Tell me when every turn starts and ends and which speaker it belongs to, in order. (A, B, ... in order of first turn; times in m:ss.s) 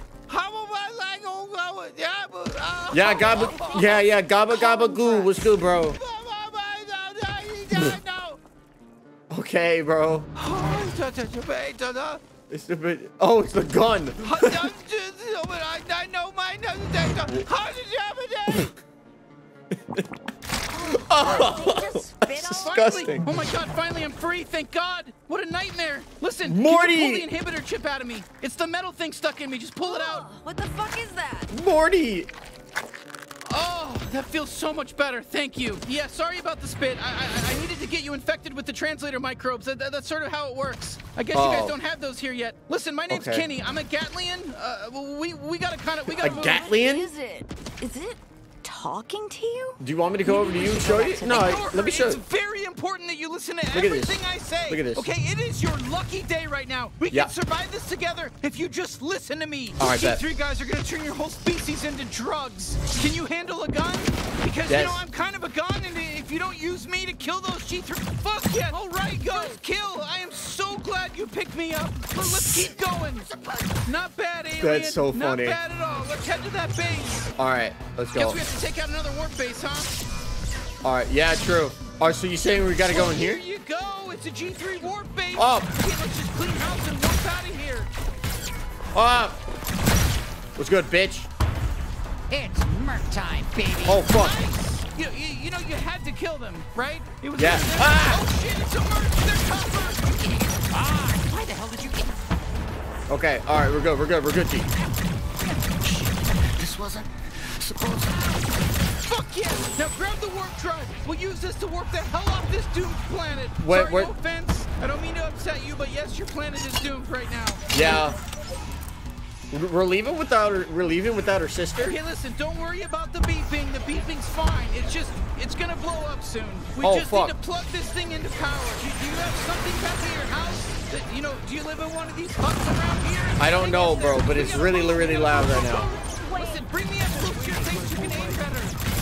0:00.3-0:03.9 A
0:02.9-0:06.0 B
0:05.9-0:08.4 A
0:09.3-0:10.3 B
0:10.4-0:12.2 A
0:12.5-0:14.7 B
0:14.2-0:18.7 A
0:20.7-0:23.1 C
0:20.9-0:23.4 B
0:22.6-0:30.2 A
0:26.4-0:27.2 B
0:29.8-0:31.5 C
0:31.5-0:32.3 B
0:33.5-0:46.6 A
0:41.3-0:41.7 B
0:43.1-0:43.5 B
0:46.2-0:51.7 C
0:46.2-0:47.1 B
0:49.8-0:52.2 B
0:51.3-1:13.3 A
0:53.7-0:55.1 B
0:59.8-1:00.2 B
1:04.7-1:05.0 B
1:13.8-1:17.3 A
1:14.6-1:15.6 B
1:17.4-1:18.4 B
1:18.2-1:20.0 A
1:20.8-1:23.4 B
1:22.8-1:27.9 A
1:25.4-1:25.7 B
1:28.9-1:29.4 B
1:30.6-1:31.3 B
1:32.3-1:34.0 D
1:33.8-1:34.4 B
1:34.1-1:40.1 A
1:37.4-1:38.3 B
1:40.3-1:41.9 D
1:43.1-1:44.7 B
1:46.6-1:47.0 D
1:47.7-1:48.1 D
1:49.1-1:57.6 A
1:53.6-1:54.1 B
1:57.7-1:58.2 B
1:59.5-2:02.0 B
2:01.8-2:18.7 A
2:06.8-2:07.3 B
2:13.4-2:15.9 B